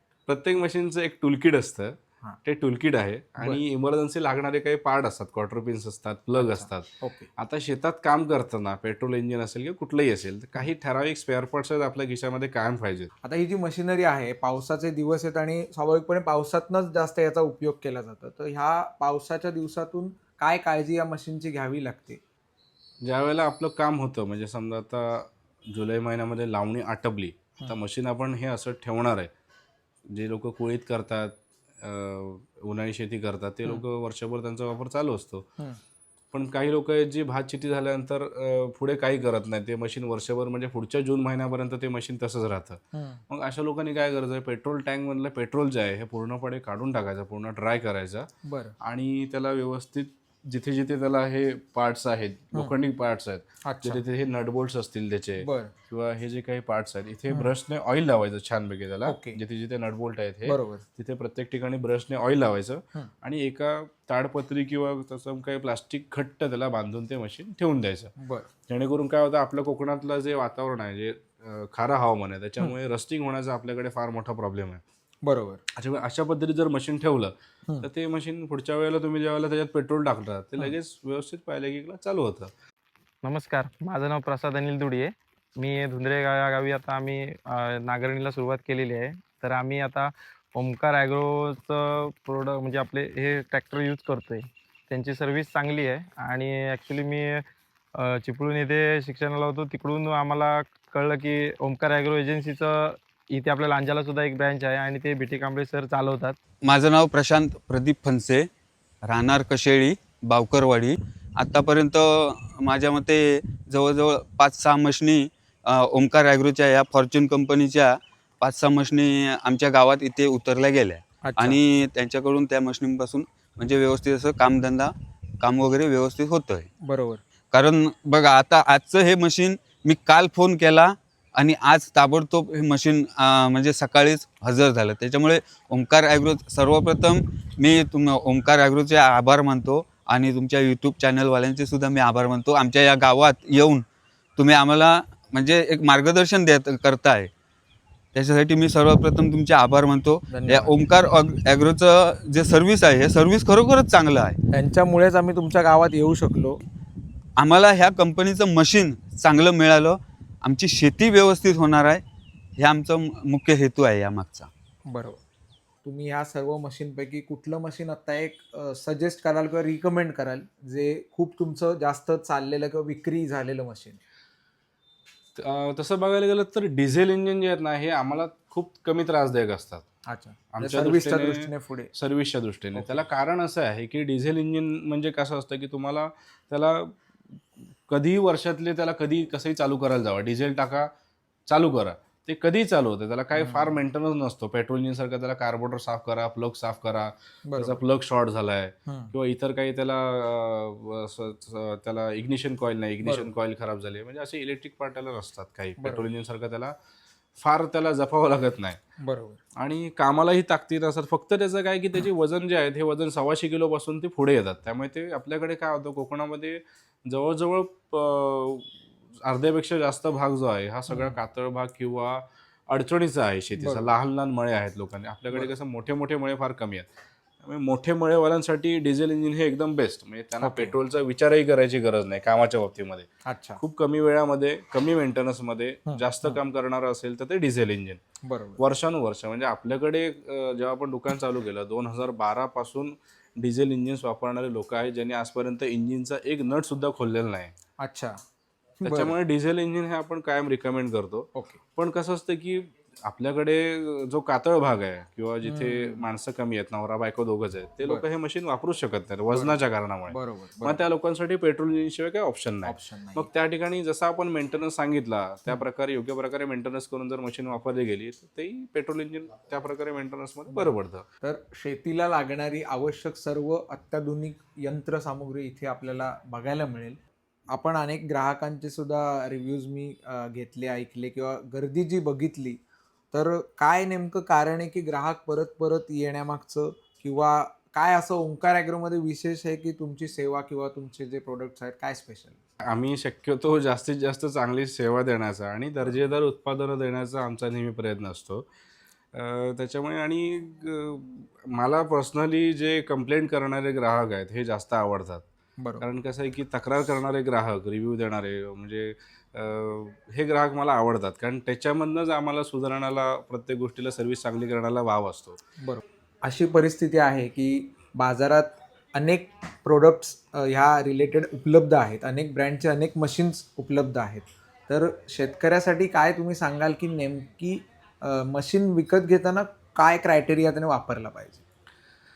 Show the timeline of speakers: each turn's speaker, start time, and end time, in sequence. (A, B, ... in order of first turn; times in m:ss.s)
0:00.3-0:06.9 A
0:06.4-0:07.3 B
0:07.4-0:13.1 A
0:13.2-0:22.2 B
0:23.0-0:29.3 A
0:30.1-0:35.5 A
0:36.3-0:48.3 A
0:42.9-0:43.2 B
0:48.4-0:48.7 B
0:48.8-1:08.1 A
0:53.7-0:54.0 B
0:55.4-0:55.7 B
0:59.1-0:59.4 B
1:00.4-1:00.8 B
1:08.2-1:08.5 B
1:08.7-1:14.8 A
1:15.2-1:15.6 B
1:15.8-1:22.5 A
1:23.2-1:46.4 C
1:46.6-1:48.5 D
1:49.0-2:06.7 D
2:01.2-2:01.6 B
2:06.9-2:07.2 B
2:07.5-2:23.8 D
2:24.4-2:27.3 D
2:28.1-2:34.4 D
2:30.3-2:30.7 B
2:34.5-2:36.6 B
2:37.4-2:42.0 D
2:42.6-2:44.5 D
2:44.9-2:45.2 B
2:45.8-2:54.0 B
2:55.4-2:59.8 A
3:00.1-3:01.9 B
3:00.5-3:06.9 A
3:07.9-3:10.9 A
3:11.5-3:26.8 A
3:13.4-3:13.8 B
3:17.5-3:17.8 B
3:18.9-3:19.1 B
3:23.0-3:23.3 B
3:25.8-3:26.1 B
3:27.4-3:28.8 A
3:29.0-3:29.4 B
3:29.6-3:38.7 A
3:39.2-3:46.9 A
3:40.9-3:41.2 B
3:43.6-3:43.9 B
3:47.4-3:53.1 A
3:50.4-3:50.8 B
3:53.3-3:53.6 B
3:53.6-3:58.0 A
3:55.9-3:56.4 B
3:58.2-3:58.6 B
3:58.6-4:07.6 A
4:07.8-4:08.2 B
4:08.8-4:31.0 A
4:08.8-4:09.1 B
4:11.4-4:11.6 B
4:15.5-4:16.0 B
4:19.3-4:19.6 B
4:20.1-4:20.8 B
4:22.6-4:23.3 B
4:31.2-4:37.0 B
4:37.5-4:42.6 B
4:43.1-4:52.4 B
4:52.7-4:58.4 A
4:59.2-5:05.2 A
5:05.6-5:05.8 B
5:05.8-5:15.4 A
5:15.6-5:31.4 B